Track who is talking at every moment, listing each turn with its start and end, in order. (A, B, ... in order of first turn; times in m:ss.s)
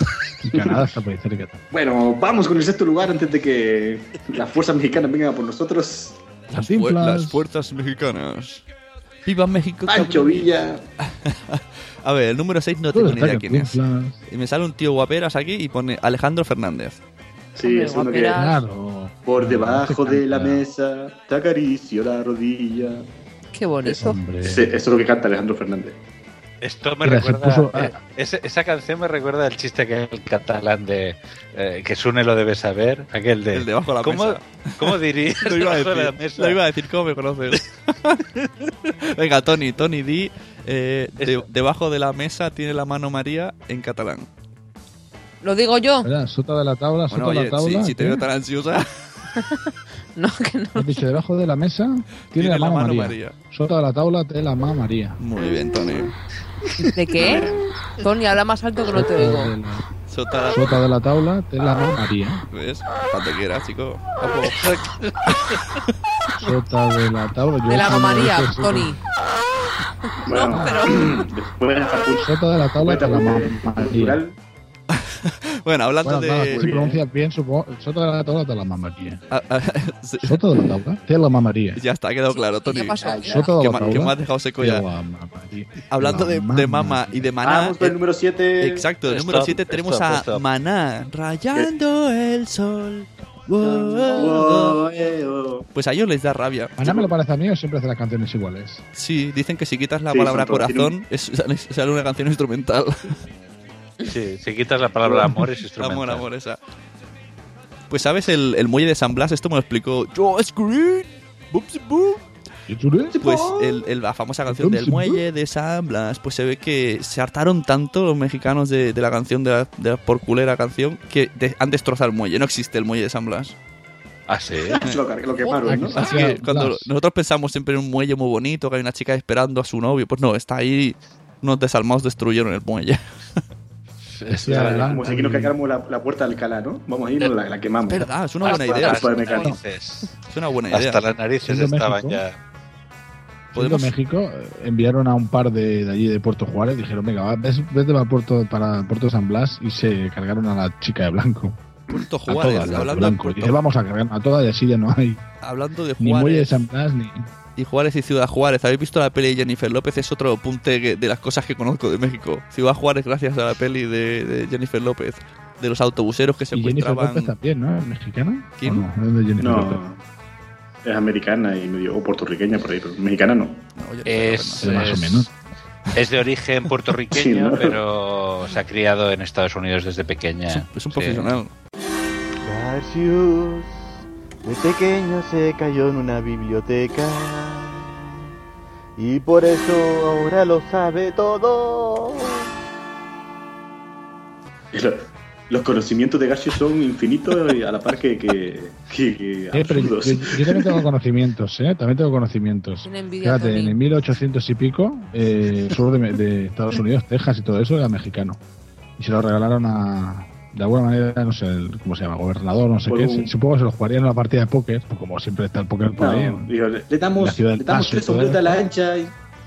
0:00.4-0:01.6 A
0:00.5-0:00.9 B
0:01.7-0:06.2 B
0:06.5-0:08.6 C
0:06.5-0:07.4 A
0:09.3-0:10.5 C
0:09.9-0:10.8 B
0:11.1-0:17.0 C
0:12.9-0:14.2 A
0:17.6-0:18.4 B
0:17.6-0:18.6 D
0:18.3-0:20.6 A
0:19.2-0:23.1 B
0:23.5-0:24.2 D
0:23.9-0:26.0 B
0:24.0-0:24.8 A
0:26.6-0:36.6 E
0:27.0-0:28.0 A
0:33.5-0:38.2 C
0:39.1-0:44.3 C
0:45.4-0:46.1 D
0:46.0-0:48.2 A
0:47.1-0:48.9 C
0:50.2-0:51.1 D
0:50.8-0:55.2 A
0:52.3-0:53.4 C
0:55.2-0:56.2 C
0:56.8-0:57.4 D
0:58.0-0:59.5 D
0:58.9-0:59.9 A
1:00.1-1:00.8 C
1:00.5-1:02.4 A
1:02.5-1:04.7 C
1:04.4-1:05.4 E
1:06.4-1:09.0 A
1:07.7-1:09.0 D
1:10.2-1:14.4 B
1:10.3-1:11.0 D
1:10.5-1:10.8 A
1:12.2-1:14.2 A
1:15.0-1:16.7 C
1:16.0-1:19.2 A
1:16.5-1:17.0 B
1:19.3-1:20.6 C
1:20.2-1:21.8 A
1:21.8-1:24.8 C
1:22.6-1:23.6 D
1:23.2-1:27.3 A
1:25.9-1:28.0 C
1:27.4-1:28.9 B
1:28.6-1:34.8 C
1:29.1-1:30.4 E
1:33.6-1:35.7 B
1:35.7-1:36.9 C
1:36.8-1:38.8 A
1:36.8-1:37.1 B
1:39.0-1:43.2 C
1:40.1-1:40.9 B
1:44.0-1:46.3 E
1:45.8-1:46.6 C
1:47.9-1:52.2 C
1:52.7-1:53.1 A
1:53.0-1:53.8 B
1:53.2-2:03.6 C
1:54.5-1:55.2 A
2:04.3-2:04.8 E
2:04.8-2:06.3 B
2:05.4-2:05.7 D
2:05.7-2:06.9 A
2:06.0-2:13.0 C
2:14.2-2:14.9 E
2:14.3-2:15.6 A
2:14.4-2:19.6 B
2:17.9-2:19.2 C
2:18.4-2:20.1 E
2:20.3-2:21.0 C
2:20.7-2:22.4 E
2:21.4-2:22.2 A
2:23.5-2:23.9 C
2:23.5-2:31.6 A
2:31.9-2:33.6 C
2:32.3-2:35.2 A
2:35.4-2:36.5 C
2:36.0-2:37.3 A
2:37.6-2:47.3 C
2:46.5-2:49.8 A
2:48.6-2:48.9 C
2:49.4-2:50.0 B
2:50.8-2:53.6 B
2:53.8-2:54.9 C
2:54.0-2:55.3 E
2:54.6-2:55.3 A
2:56.0-3:01.4 E
2:57.1-2:57.8 B
3:00.5-3:01.5 C
3:02.4-3:08.2 F
3:09.0-3:12.5 F
3:14.7-3:20.8 B
3:19.5-3:28.4 A
3:22.8-3:23.8 D
3:29.0-3:36.5 A
3:32.9-3:33.3 B
3:36.0-3:39.1 B
3:37.2-3:38.6 A